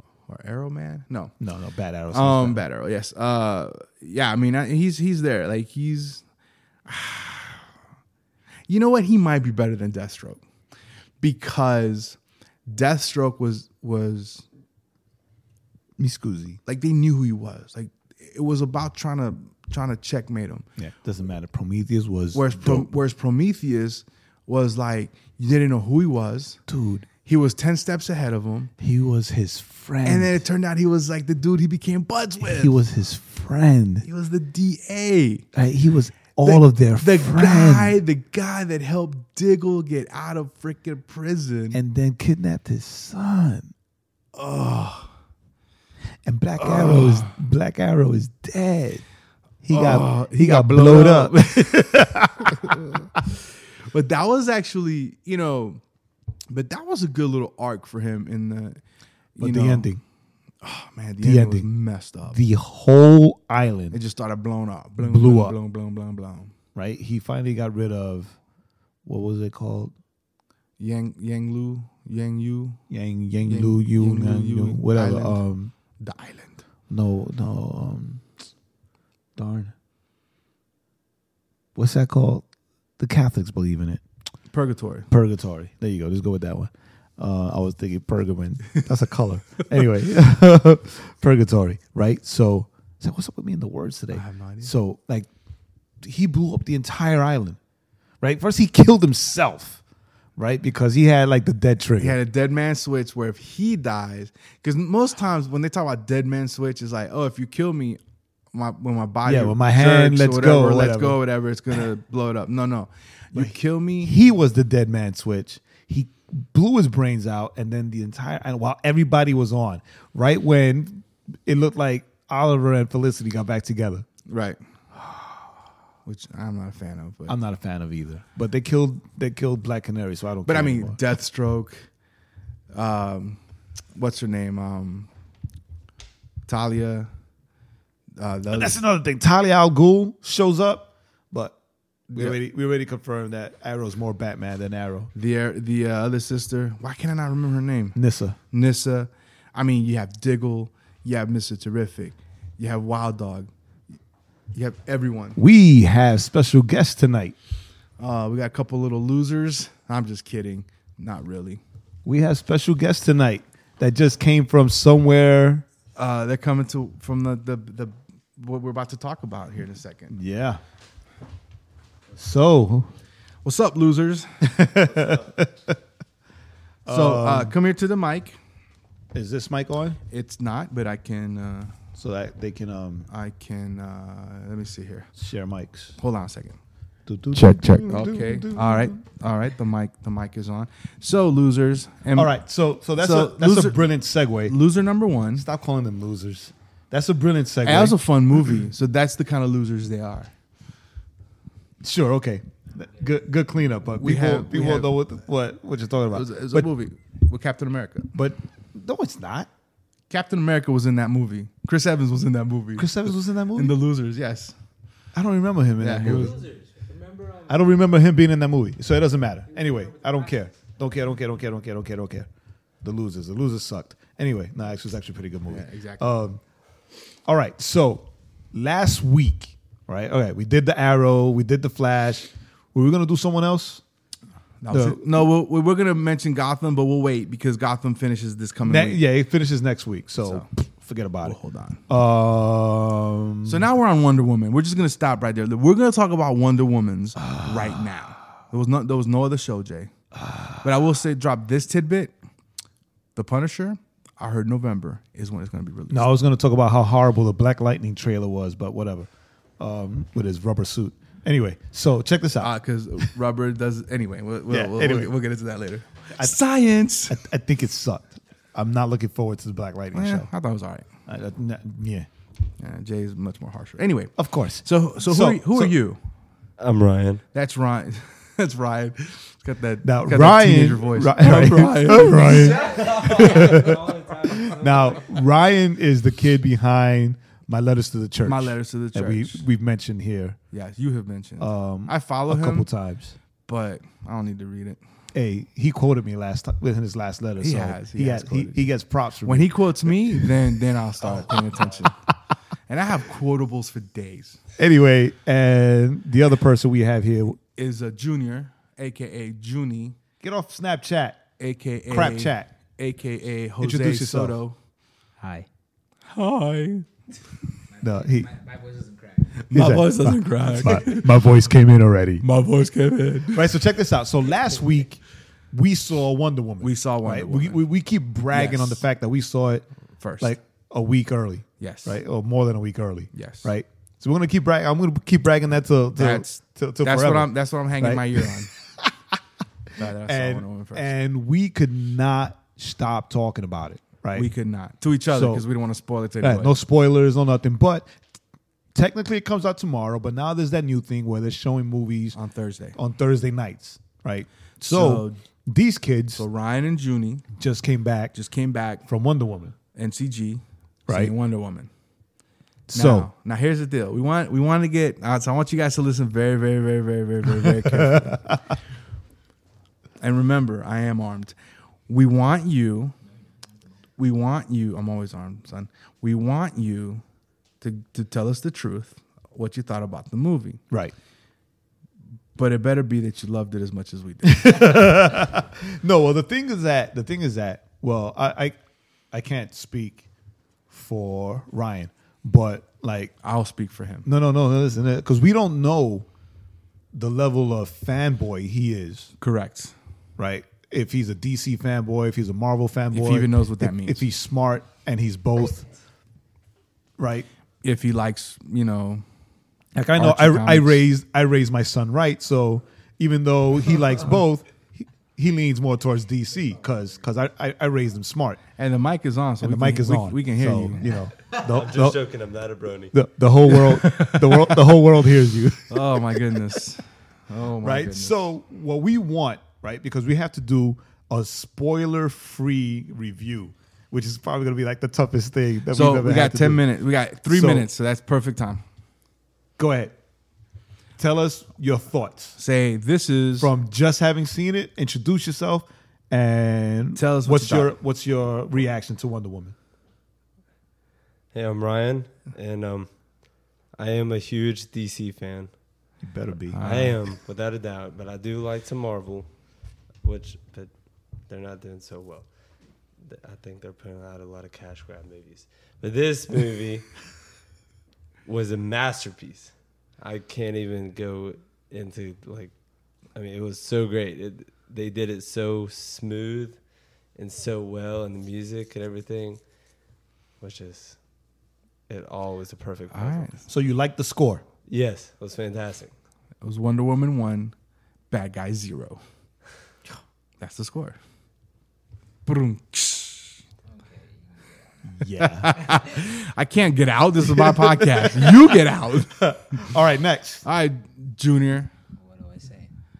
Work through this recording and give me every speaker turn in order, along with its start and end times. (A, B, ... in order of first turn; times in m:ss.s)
0:00.3-0:01.4 A
0:01.4-0:02.6 B
0:02.1-0:06.2 A
0:06.9-0:07.7 A
0:08.7-0:10.4 A
0:11.2-0:14.5 A
0:16.0-0:16.6 B
0:16.7-0:20.7 A
0:20.8-0:22.9 B
0:22.3-0:26.6 A
0:26.7-0:27.1 B
0:27.2-0:28.7 A
0:28.8-0:30.4 B
0:30.0-0:32.8 A
0:32.4-0:34.1 B
0:34.0-0:35.5 A
0:35.5-0:38.0 B
0:36.4-0:41.8 A
0:41.7-0:43.7 B
0:44.4-0:45.1 A
0:46.2-0:49.0 B
0:46.6-0:47.3 A
0:49.6-0:52.9 B
0:49.7-0:52.8 A
0:53.9-0:55.8 A
0:56.5-0:58.8 A
0:59.4-0:59.9 A
0:59.4-1:00.0 B
1:00.6-1:02.4 A
1:01.2-1:01.7 B
1:02.3-1:04.0 B
1:03.9-1:06.5 A
1:05.0-1:05.6 B
1:06.8-1:08.4 B
1:09.0-1:09.9 B
1:10.8-1:12.8 A
1:12.9-1:15.7 B
1:13.5-1:15.4 A
1:16.0-1:16.6 A
1:16.9-1:18.2 B
1:19.4-1:19.7 B
1:21.8-1:22.5 B
1:23.0-1:24.0 B
1:24.5-1:25.1 A
1:25.1-1:35.3 B
1:34.1-1:34.7 A
1:36.0-1:37.6 B
1:38.2-1:39.8 B
1:40.4-1:42.2 B
1:42.0-1:48.0 A
1:48.5-1:54.1 A
1:49.2-1:51.2 B
1:53.3-2:04.1 B
2:04.3-2:04.6 A
2:06.0-2:07.4 A
2:07.3-2:11.0 B
2:10.4-2:11.9 A
2:12.7-2:13.4 A
2:14.0-2:15.1 A
2:16.5-2:17.1 A
2:18.2-2:18.8 A
2:18.5-2:21.6 B
2:22.1-2:25.1 B
2:22.1-2:22.4 A
2:25.2-2:28.0 A
2:28.0-2:28.4 B
2:28.5-2:33.5 A
2:34.5-2:35.4 A
2:35.4-2:37.4 B
2:38.0-2:41.6 A
2:42.0-2:45.7 B
2:46.0-2:50.2 A
2:50.1-2:50.6 B
2:52.2-2:52.9 B
2:53.4-2:54.5 A
2:54.4-2:55.8 B
2:56.9-2:57.6 B
2:56.9-2:58.4 A
2:59.1-3:00.0 B
3:00.1-3:01.8 A
3:02.0-3:03.1 B
3:03.1-3:05.1 A
3:05.2-3:06.0 B
3:06.0-3:06.6 A
3:07.1-3:09.0 B
3:07.4-3:12.3 A
3:12.2-3:14.6 B
3:13.0-3:13.9 A
3:14.5-3:15.5 A
3:15.4-3:18.0 B
3:17.6-3:20.3 A
3:21.8-3:26.7 B
3:24.0-3:25.0 A
3:26.1-3:28.1 A
3:28.2-3:29.5 B
3:30.1-3:34.6 A
3:32.8-3:33.8 B
3:35.1-3:36.4 B
3:35.8-3:36.4 A
3:36.0-3:37.6 C
3:37.5-3:42.3 B
3:39.6-3:40.3 C
3:42.8-3:46.4 B
3:45.5-3:46.1 A
3:47.3-3:53.8 B
3:54.6-3:59.0 A
3:54.7-3:55.2 B
3:58.6-4:01.4 B
4:00.2-4:00.5 A
4:01.2-4:01.8 A
4:01.9-4:03.6 B
4:03.4-4:09.9 A
4:07.2-4:07.8 B
4:10.2-4:10.6 B
4:10.6-4:12.1 A
4:13.2-4:16.1 A
4:15.9-4:22.6 B
4:22.4-4:27.2 A
4:24.5-4:25.1 B
4:27.1-4:30.3 B
4:29.9-4:30.9 A
4:31.1-4:32.1 B
4:32.6-4:36.0 A
4:34.2-4:35.8 B
4:36.6-4:37.2 D
4:37.3-4:42.7 A
4:39.8-4:50.4 B
4:42.3-4:44.1 C
4:42.6-4:45.1 D
4:48.2-4:49.5 A
4:50.5-4:52.7 A
4:51.4-4:53.2 B
4:53.5-4:54.8 A
4:55.1-5:00.3 B
4:57.4-4:58.7 A
4:59.2-5:02.0 A
5:02.7-5:04.4 A
5:04.6-5:07.4 B
5:07.6-5:10.0 A
5:10.2-5:11.3 B
5:11.4-5:14.6 A
5:11.9-5:12.5 B
5:13.6-5:14.4 B
5:15.2-5:15.5 C
5:16.1-5:16.9 A
5:17.7-5:19.5 C
5:17.8-5:18.3 B
5:19.5-5:21.2 A
5:19.5-5:22.2 B
5:22.2-5:23.5 A
5:23.3-5:29.7 B
5:26.6-5:27.7 A
5:28.3-5:28.8 A
5:30.0-5:30.3 A
5:30.2-5:38.9 B
5:31.6-5:32.0 A
5:33.1-5:33.5 A
5:36.0-5:38.5 A
5:39.8-5:40.9 A
5:40.0-5:44.3 B
5:44.2-5:46.5 A
5:45.1-5:45.4 B
5:46.2-5:48.0 B
5:48.8-5:52.2 B
5:52.1-5:52.8 A
5:52.8-5:56.2 B
5:54.7-5:55.2 A
5:56.2-5:57.3 A
5:57.3-5:58.2 B
5:58.1-5:58.9 A
5:58.9-5:59.6 B
5:59.7-6:01.7 A
6:00.9-6:01.1 B
6:02.7-6:03.1 B
6:02.7-6:08.2 A
6:07.7-6:08.4 B
6:10.0-6:11.4 A
6:11.9-6:13.0 A
6:14.0-6:17.0 A
6:17.6-6:20.6 A
6:22.4-6:25.0 A
6:24.2-6:28.6 B
6:29.1-6:30.0 B
6:30.7-6:33.1 B
6:33.2-6:34.1 A
6:34.1-6:36.1 B
6:36.9-6:39.1 B
6:39.2-6:39.8 A
6:40.2-6:45.7 B
6:42.9-6:44.0 A
6:47.0-6:47.3 B
6:47.6-6:49.0 A
6:49.8-6:58.4 B
6:50.0-6:50.8 A
6:58.6-7:01.0 A
6:59.4-7:02.0 B
7:01.4-7:03.0 D
7:02.9-7:06.3 B
7:03.5-7:04.6 A
7:05.7-7:08.2 A
7:07.6-7:16.6 B
7:15.7-7:18.6 A
7:17.3-7:17.7 B
7:19.6-7:19.9 B
7:21.0-7:22.4 B
7:22.4-7:23.5 A
7:23.4-7:29.6 B
7:27.0-7:27.7 A
7:31.3-7:32.9 D
7:33.7-7:35.5 D
7:36.0-7:36.6 B
7:36.5-7:37.0 A
7:36.6-7:42.3 D
7:43.0-7:47.0 D
7:48.2-7:52.5 D
7:53.1-7:56.6 D
7:57.2-7:59.4 D
8:00.4-8:01.0 D
8:01.9-8:03.4 D
8:02.9-8:03.4 A
8:03.5-8:04.4 B
8:04.7-8:05.9 D
8:06.4-8:07.5 A
8:08.1-8:09.0 A
8:10.4-8:11.0 A
8:12.3-8:13.4 A
8:13.7-8:14.9 C
8:14.9-8:15.6 B
8:15.2-8:19.3 A
8:17.4-8:18.3 B
8:19.2-8:20.4 B
8:20.4-8:21.7 A
8:22.0-8:22.7 C